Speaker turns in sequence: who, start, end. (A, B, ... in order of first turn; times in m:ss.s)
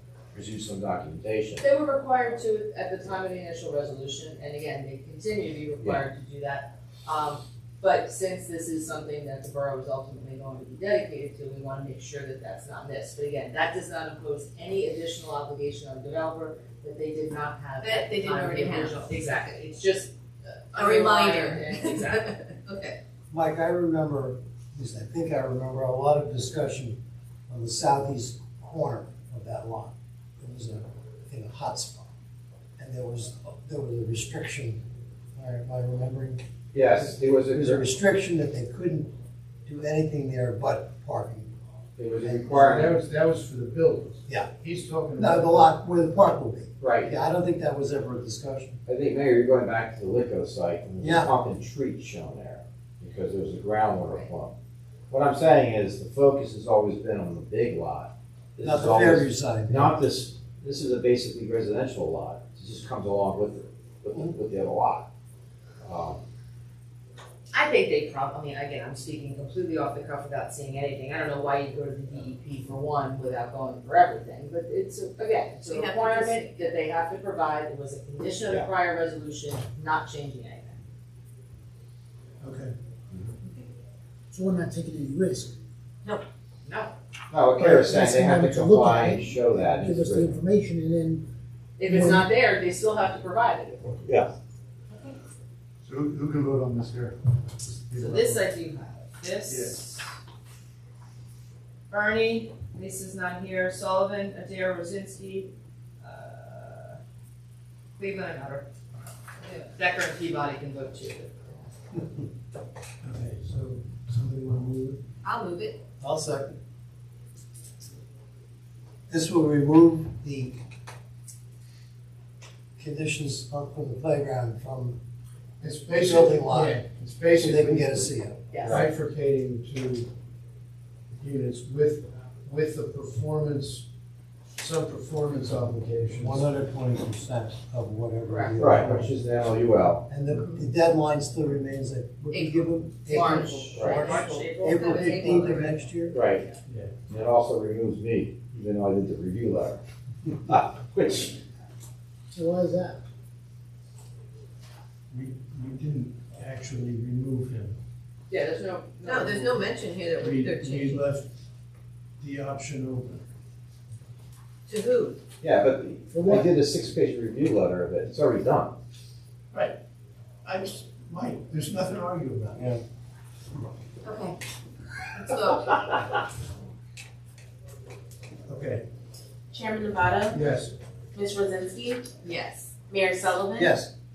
0:00.3-0:01.6 A
0:01.6-0:22.4 B
0:17.8-0:19.0 C
0:20.8-0:23.0 C
0:23.3-0:27.0 D
0:27.5-0:32.1 D
0:32.8-0:34.8 D
0:35.4-0:36.4 D
0:36.7-0:37.9 A
0:37.0-0:39.1 D
0:39.7-0:41.5 D
0:42.0-0:43.0 A
0:42.2-0:42.7 D
0:42.5-0:45.8 E
0:45.2-0:48.8 D
0:46.8-0:47.2 A
0:48.9-0:54.5 A
0:51.0-0:51.3 D
0:55.1-1:05.1 A
0:58.6-1:00.0 D
1:05.8-1:06.2 A
1:07.5-1:20.8 B
1:15.6-1:16.7 C
1:22.4-1:22.7 E
1:24.3-1:25.5 F
1:26.6-1:26.9 B
1:27.3-1:30.4 A
1:27.6-1:31.3 F
1:31.8-1:34.0 B
1:31.9-1:32.3 F
1:35.8-1:38.4 E
1:38.0-1:40.1 B
1:39.5-1:39.8 E
1:41.9-1:47.0 B
1:48.0-1:48.7 B
1:49.4-1:51.8 B
1:53.0-1:55.0 E
1:55.2-1:55.8 C
1:56.0-1:56.6 D
1:59.1-2:00.6 D
2:02.8-2:05.0 D
2:05.6-2:10.1 E
2:05.9-2:06.8 D
2:07.4-2:08.4 D
2:08.5-2:08.8 B
2:11.2-2:13.9 E
2:14.6-2:16.5 E
2:16.2-2:19.2 D
2:18.2-2:18.7 B
2:18.6-2:20.0 A
2:20.1-2:26.2 D
2:20.3-2:20.6 C
2:22.3-2:22.8 C
2:23.1-2:25.6 B
2:23.7-2:24.0 A
2:24.6-2:25.8 C
2:26.1-2:26.5 A
2:26.6-2:26.9 E
2:27.1-2:31.4 A
2:32.3-2:33.0 F
2:35.1-2:37.8 E
2:38.3-2:39.6 B
2:39.0-2:41.0 C
2:40.2-2:41.3 E
2:42.2-2:43.2 E
2:44.7-2:45.2 C
2:45.4-2:48.7 A
2:50.4-2:52.8 E
2:54.1-2:54.4 C
2:55.2-2:55.8 C
2:58.5-2:58.8 E
2:59.5-3:00.4 G
3:00.3-3:00.7 E
3:01.2-3:02.2 G
3:02.2-3:02.7 C
3:02.9-3:03.8 G
3:03.6-3:03.9 D